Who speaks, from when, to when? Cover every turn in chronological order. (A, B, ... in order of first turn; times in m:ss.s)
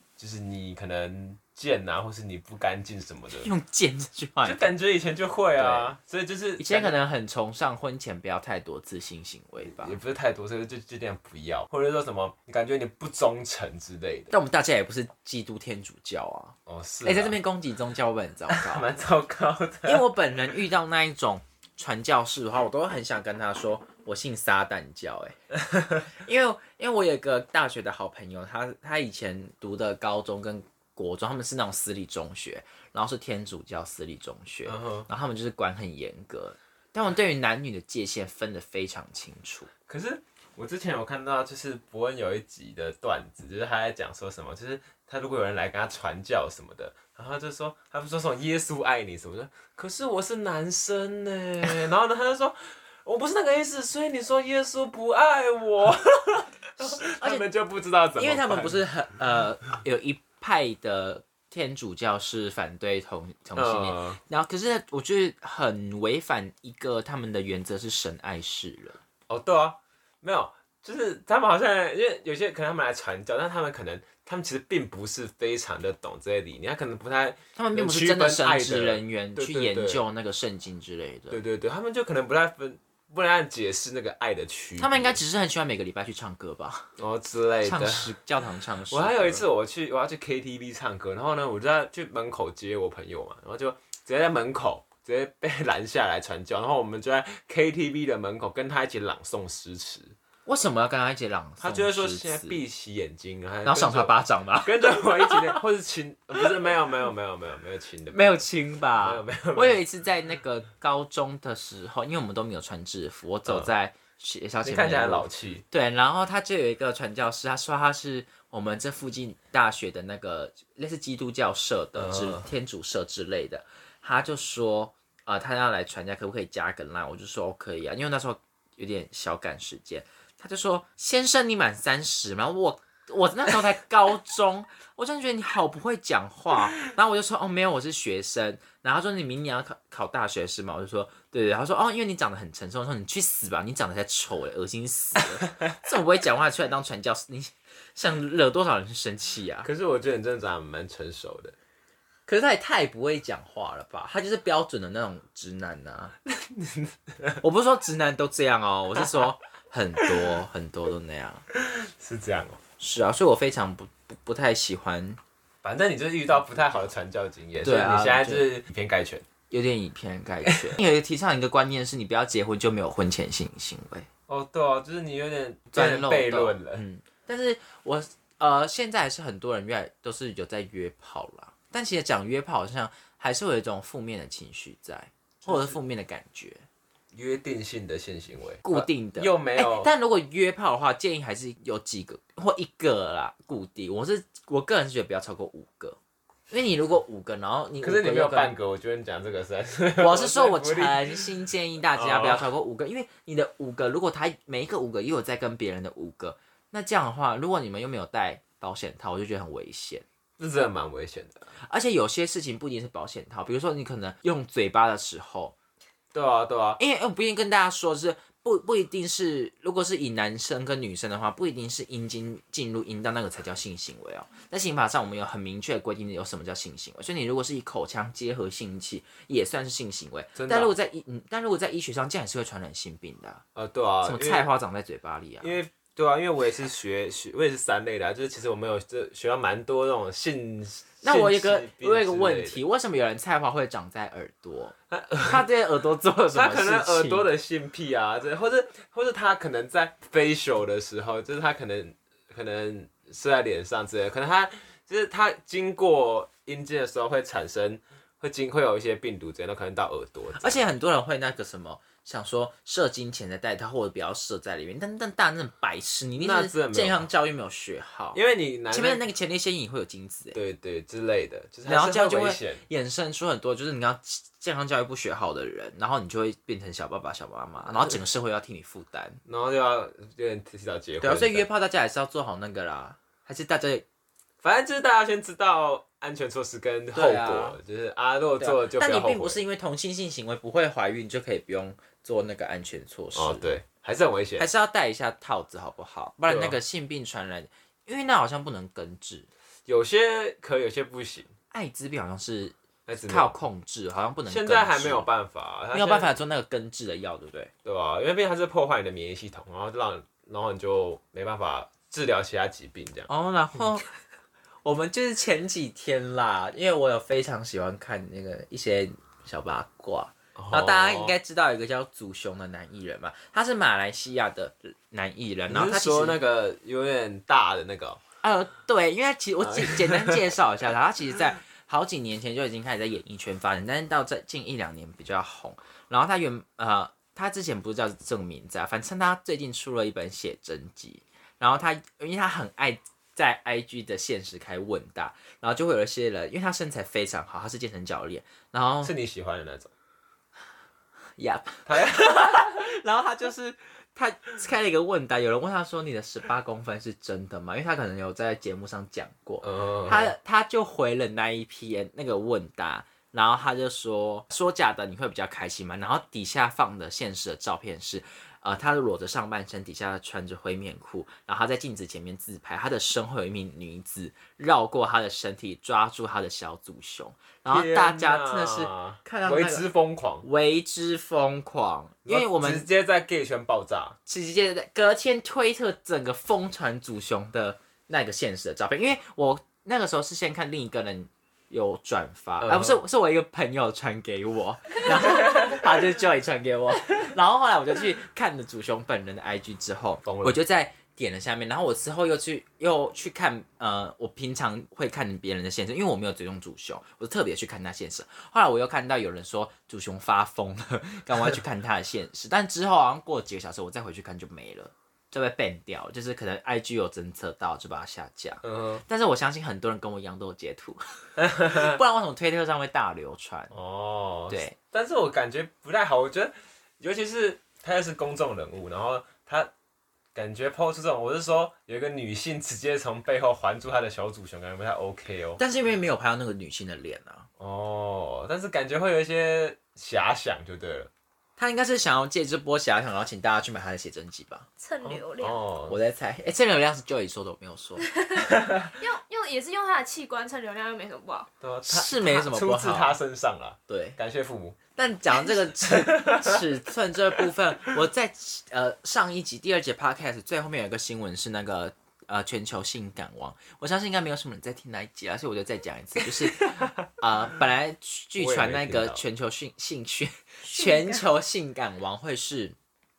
0:00.2-0:03.5 A
0:03.3-0:04.7 B
0:04.4-0:07.0 A
0:05.6-0:05.9 B
0:06.6-0:10.0 B
0:09.7-0:14.3 A
0:14.3-0:18.9 B
0:16.6-0:17.4 A
0:18.5-0:20.1 A
0:19.8-0:25.4 B
0:26.1-0:39.7 B
0:34.6-0:35.1 A
0:39.9-0:58.8 A
0:56.8-0:57.5 B
0:58.2-1:09.0 B
1:03.6-1:04.2 A
1:09.3-1:20.0 A
1:17.6-1:21.4 B
1:21.3-1:25.2 A
1:24.8-1:26.9 B
1:27.0-1:28.2 A
1:27.6-1:29.4 B
1:28.9-1:40.2 A
1:40.4-1:42.6 B
1:41.6-1:48.3 A
1:43.6-1:45.6 B
1:48.1-2:29.7 B
1:49.0-1:49.8 A
1:54.6-1:55.6 A
2:02.0-2:02.5 A
2:29.6-2:31.5 A
2:32.3-2:36.1 B
2:36.2-2:37.4 A
2:37.4-2:41.4 B
2:40.0-2:40.3 A
2:41.5-2:42.6 A
2:42.8-2:45.2 B
2:45.6-2:49.2 A
2:47.6-2:48.5 B
2:49.5-2:54.1 B
2:50.4-2:50.8 A
2:54.3-2:56.8 A
2:55.7-3:06.6 B
3:05.4-3:05.8 A
3:07.1-3:09.9 A
3:08.6-3:16.0 B
3:16.5-3:18.6 B
3:17.8-3:21.3 A
3:20.0-3:30.0 B
3:21.9-3:22.5 A
3:30.4-3:31.5 A
3:31.6-3:35.5 B
3:36.1-3:36.8 A
3:36.8-3:53.4 B
3:50.3-3:50.7 A
3:53.6-3:54.5 A
3:54.0-3:55.5 B
3:55.4-4:02.6 A
4:01.0-4:07.3 B
4:04.9-4:05.4 A
4:06.3-4:20.6 A
4:20.4-4:28.2 B
4:26.2-4:27.1 A
4:28.1-4:29.0 A
4:28.7-4:30.4 B
4:30.3-4:32.6 A
4:31.6-4:39.2 B
4:37.6-4:38.0 A
4:39.2-4:41.4 A
4:41.0-4:43.8 B
4:44.4-4:49.4 A
4:46.9-4:47.6 B
4:48.4-4:53.5 B
4:53.1-4:54.5 A
4:54.4-4:59.3 B
4:56.3-4:56.6 A
4:59.6-5:01.3 A
5:01.5-5:05.1 B
5:02.9-5:03.3 A
5:04.2-5:06.1 A
5:05.7-5:07.5 B
5:07.6-5:13.1 A
5:13.1-5:13.9 B
5:14.6-5:26.2 B
5:20.4-5:21.2 A
5:25.5-5:28.0 A
5:28.2-5:48.9 B
5:29.4-5:30.3 A
5:48.8-5:49.7 A
5:51.2-6:19.7 B
5:51.7-5:52.6 A
5:59.4-6:00.1 A
6:17.5-6:20.2 A
6:20.2-6:22.7 B
6:22.0-6:24.0 A
6:24.0-7:03.5 B
6:32.4-6:32.8 A
6:35.1-6:35.5 A
6:40.0-6:40.4 A
6:58.4-6:58.8 A
7:01.2-7:01.8 A
7:03.5-7:09.5 A
7:04.3-7:04.6 B
7:10.1-7:15.4 A
7:15.4-7:17.3 B
7:17.4-7:20.9 A
7:21.4-7:24.5 B
7:24.6-7:25.4 C
7:24.8-7:25.8 A
7:25.7-7:27.9 B
7:27.8-7:31.3 C
7:28.3-7:28.7 A
7:31.4-7:34.6 A
7:31.6-7:33.0 B
7:33.7-7:34.0 B
7:34.8-7:52.6 B
7:35.7-7:36.4 A
7:46.4-7:46.8 A
7:48.2-7:49.0 A
7:50.4-7:51.0 C